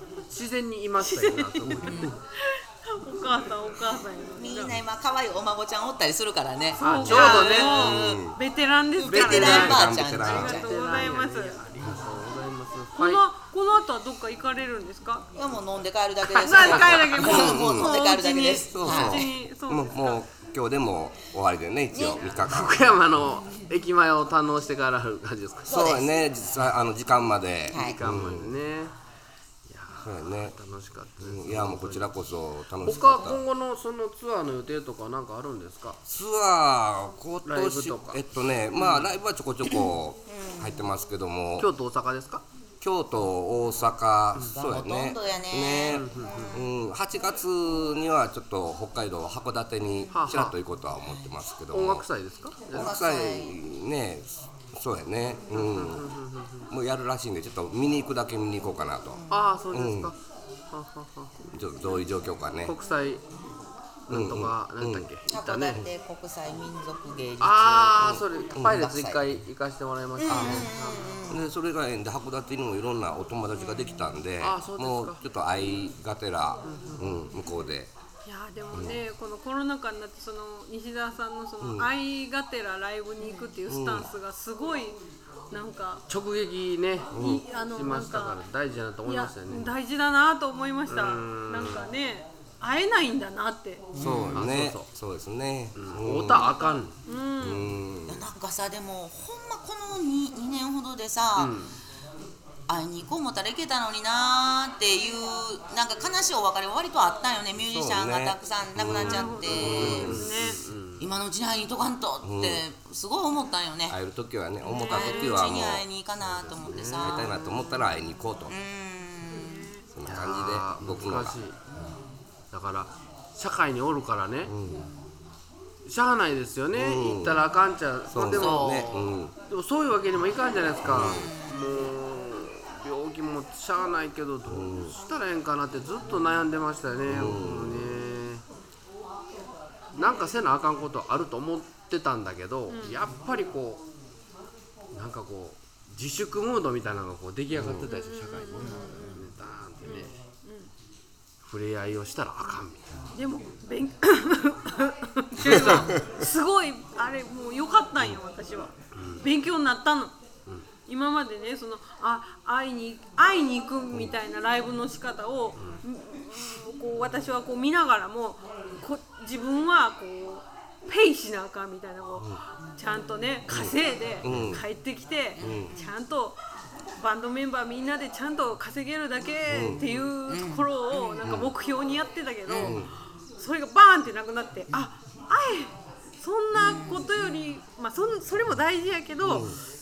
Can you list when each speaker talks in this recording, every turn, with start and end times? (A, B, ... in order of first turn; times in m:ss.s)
0:00.3-0:02.2 A
0:01.0-0:04.8 B
0:01.8-0:02.2 C
0:04.4-0:08.4 C
0:06.8-0:08.0 A
0:06.8-0:11.6 B
0:07.0-0:08.4 D
0:09.0-0:11.0 C
0:09.1-0:10.6 D
0:09.1-0:13.2 A
0:13.0-0:15.3 B
0:15.3-0:19.3 C
0:16.2-0:17.0 A
0:16.4-0:20.2 B
0:17.2-0:18.0 D
0:18.5-0:22.9 D
0:21.9-0:22.2 C
0:22.2-0:26.0 A
0:25.7-0:26.0 C
0:25.7-0:28.5 D
0:27.7-0:28.3 C
0:27.7-0:28.9 A
0:29.7-0:32.1 A
0:30.0-0:30.5 D
0:31.2-0:33.4 D
0:32.8-0:36.0 A
0:36.1-0:41.7 D
0:37.4-0:38.2 A
0:38.8-0:39.1 A
0:40.3-0:40.8 C
0:41.6-0:42.4 A
0:42.8-0:52.0 D
0:44.5-0:46.0 C
0:45.9-0:46.6 A
0:49.9-0:50.2 C
0:50.1-0:50.6 A
0:51.7-0:53.2 A
0:52.7-0:53.6 C
0:52.8-0:56.1 D
0:55.5-0:56.7 A
0:56.7-1:00.1 D
0:59.1-0:59.4 C
0:59.3-1:00.2 A
1:00.7-1:01.3 A
1:01.5-1:02.8 D
1:02.6-1:03.2 A
1:04.1-1:05.9 A
1:04.1-1:05.1 D
1:05.3-1:09.4 C
1:07.4-1:11.2 A
1:10.2-1:11.5 C
1:10.3-1:10.7 D
1:11.3-1:17.9 D
1:13.5-1:14.1 C
1:14.4-1:15.2 A
1:16.7-1:17.0 A
1:18.3-1:25.0 B
1:21.6-1:21.9 D
1:23.7-1:24.1 D
1:25.5-1:26.0 B
1:26.1-1:29.7 A
1:27.2-1:27.4 D
1:27.2-1:28.4 B
1:29.0-1:33.9 B
1:30.9-1:31.9 A
1:34.0-1:34.4 C
1:34.0-1:34.9 A
1:34.0-1:36.5 D
1:35.8-1:37.0 A
1:36.3-1:37.8 B
1:37.4-1:38.2 D
1:38.1-1:41.6 C
1:41.4-1:41.8 A
1:42.7-1:50.3 C
1:47.7-1:50.3 D
1:48.9-1:50.6 B
1:49.6-1:51.1 A
1:51.0-1:54.0 C
1:52.2-1:52.6 D
1:53.9-1:55.8 D
1:54.7-1:55.4 B
1:54.7-1:57.6 C
1:56.2-1:57.2 A
1:57.0-1:58.6 D
1:58.5-1:59.7 C
1:59.3-1:59.8 B
2:00.0-2:01.4 D
2:00.0-2:01.6 A
2:02.5-2:04.6 A
2:04.5-2:04.9 D
2:05.9-2:08.9 A
2:06.8-2:07.4 D
2:08.1-2:09.3 D
2:08.2-2:09.1 C
2:09.5-2:18.4 A
2:10.8-2:11.3 D
2:10.9-2:11.7 C
2:14.5-2:14.9 D
2:17.1-2:18.0 D
2:20.0-2:23.8 A
2:22.7-2:23.0 B
2:24.9-2:30.1 A
2:27.6-2:27.9 D
2:27.9-2:29.3 B
2:29.8-2:30.7 B
2:31.4-2:32.8 A
2:33.2-2:40.1 B
2:35.4-2:36.0 A
2:35.4-2:35.8 D
2:39.0-2:39.2 A
2:40.9-2:56.4 B
2:53.5-2:54.6 D
2:55.4-2:55.7 C
2:55.4-2:55.8 D
2:57.0-3:09.5 B
2:59.5-2:59.8 D
3:00.3-3:01.2 C
3:01.2-3:01.5 D
3:02.5-3:02.8 C
3:02.6-3:02.9 D
3:06.5-3:07.3 C
3:09.2-3:09.6 D